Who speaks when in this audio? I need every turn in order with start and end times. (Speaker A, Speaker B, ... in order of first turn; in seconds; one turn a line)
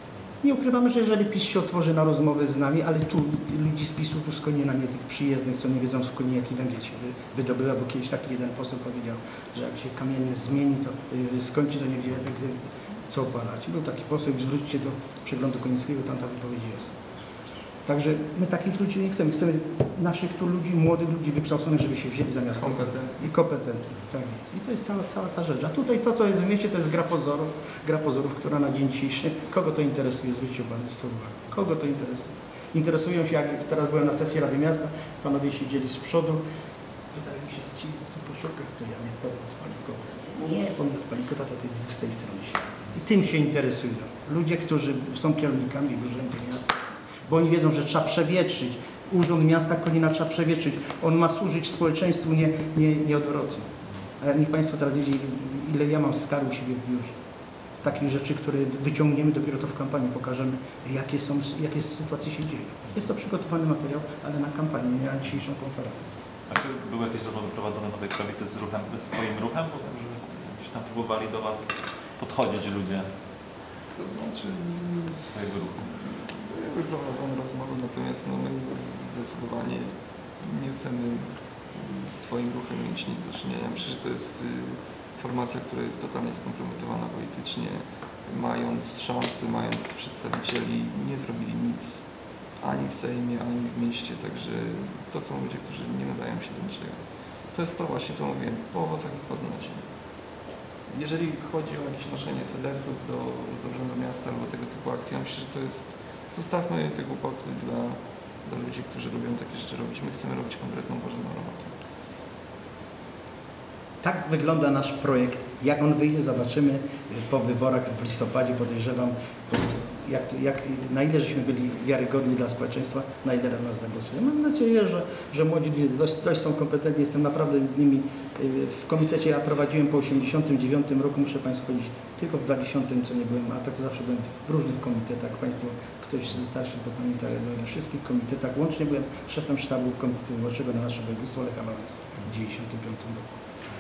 Speaker A: 0.4-16.9
Speaker A: 17.9-36.4
Speaker B: 22.6-23.2
Speaker A: 37.1-57.1
Speaker A: 57.8-66.2
Speaker C: 66.5-73.1
Speaker B: 73.9-75.3
Speaker C: 75.3-75.8
Speaker B: 75.9-92.0
Speaker B: 92.6-97.0
Speaker B: 97.5-99.9
Speaker B: 100.9-111.7
Speaker A: 114.0-143.4